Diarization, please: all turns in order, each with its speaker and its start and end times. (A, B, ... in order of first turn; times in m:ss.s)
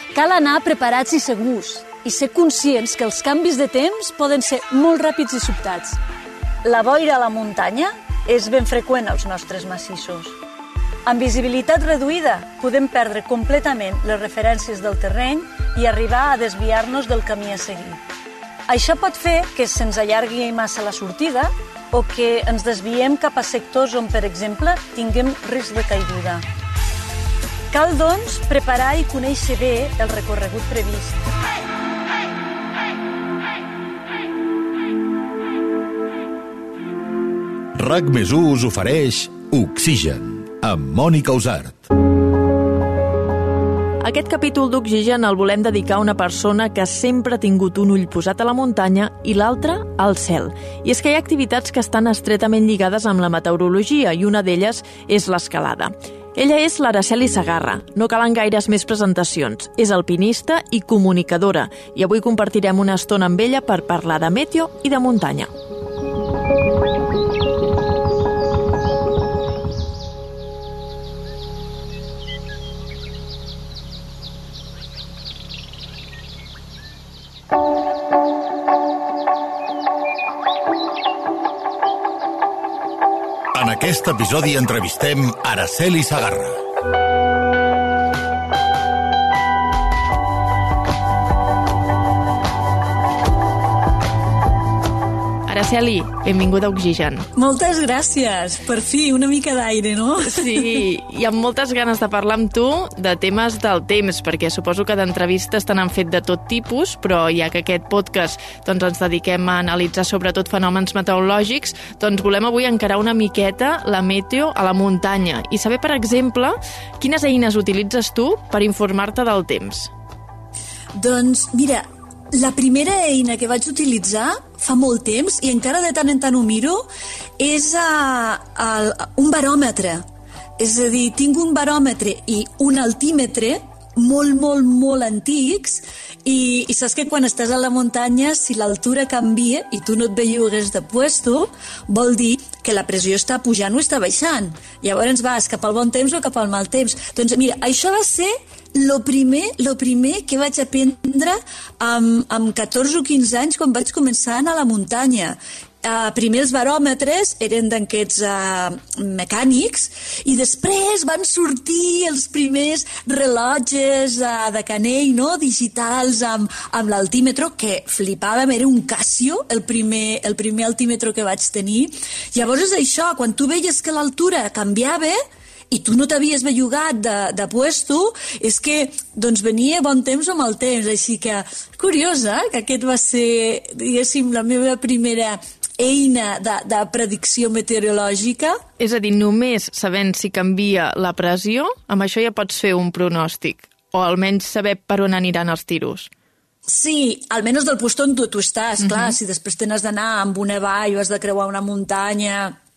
0:00.1-0:06.0 A
0:06.6-0:10.4 A
0:11.1-0:18.0 A
0:18.7-0:26.4 A
0:27.7-0:31.2 A
0:37.8-0:41.9 B
0:44.0-1:05.5 C
1:23.5-1:26.6 B
1:35.5-1:37.3 C
1:37.4-1:40.8 A
1:40.3-1:59.9 C
2:01.0-2:06.8 A
2:07.4-2:10.0 A
2:10.6-2:55.2 A
2:55.7-3:08.6 A
3:08.8-3:16.1 C
3:16.7-3:22.6 A
3:18.9-3:19.1 C